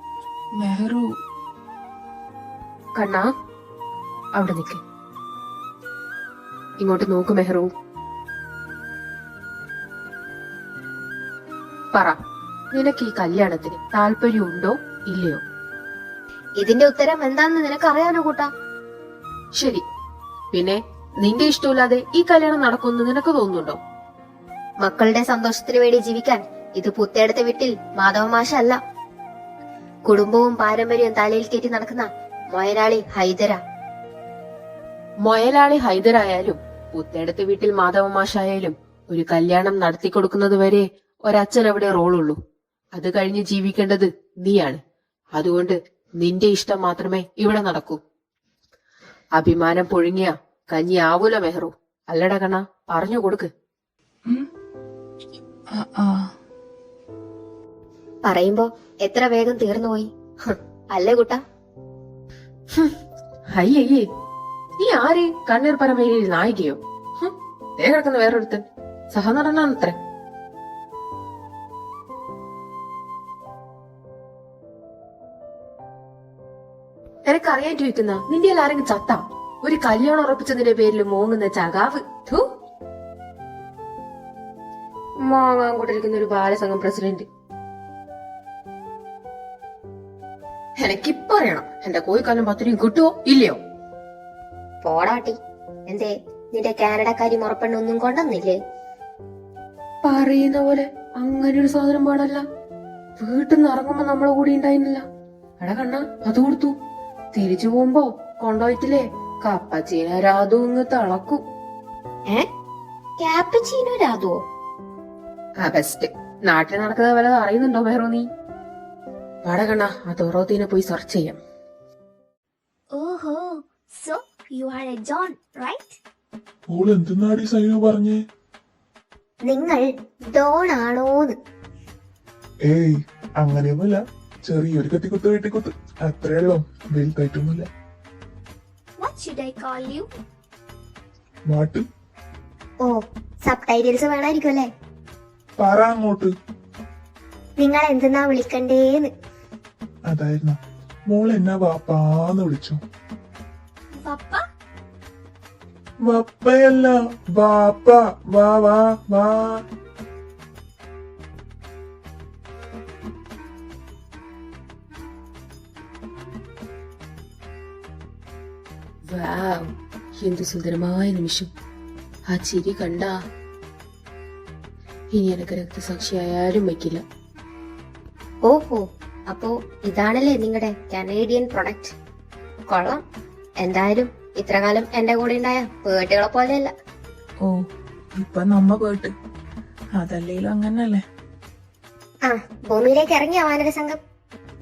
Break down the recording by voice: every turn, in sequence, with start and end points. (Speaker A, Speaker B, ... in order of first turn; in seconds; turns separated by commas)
Speaker A: 0.6-1.0, Speaker B: 2.9-3.3, Speaker B: 4.4-4.8, Speaker B: 6.8-7.7, Speaker B: 11.9-12.2, Speaker B: 12.7-15.4, Speaker C: 16.6-18.5, Speaker B: 19.6-19.8, Speaker B: 20.5-23.8, Speaker C: 24.8-28.8, Speaker C: 30.0-33.6, Speaker B: 35.2-42.4, Speaker B: 42.9-44.8, Speaker B: 45.3-48.0, Speaker B: 49.3-53.5, Speaker A: 55.7-56.3, Speaker C: 58.2-61.4, Speaker B: 63.5-64.0, Speaker B: 64.8-70.0, Speaker B: 77.2-82.5, Speaker B: 85.2-87.2, Speaker B: 90.8-93.6, Speaker C: 94.8-95.4, Speaker C: 95.9-98.6, Speaker B: 100.0-102.4, Speaker B: 103.2-105.0, Speaker B: 105.6-106.7, Speaker B: 107.3-111.4, Speaker C: 113.2-114.4, Speaker B: 115.6-118.2, Speaker B: 119.4-121.4, Speaker D: 122.9-126.0, Speaker E: 126.7-128.2, Speaker C: 129.5-131.3, Speaker E: 132.6-137.7, Speaker D: 139.0-140.1, Speaker E: 141.5-141.8, Speaker C: 143.4-144.7, Speaker E: 145.6-146.3, Speaker C: 147.6-149.1, Speaker E: 150.1-150.6, Speaker E: 151.1-152.8, Speaker D: 154.0-154.4, Speaker E: 156.1-159.6, Speaker B: 169.1-171.5, Speaker B: 172.3-173.2, Speaker B: 175.1-177.0, Speaker C: 178.4-181.9, Speaker C: 182.7-183.0, Speaker C: 183.6-186.7, Speaker A: 187.4-189.1, Speaker A: 190.0-191.0, Speaker C: 192.3-194.0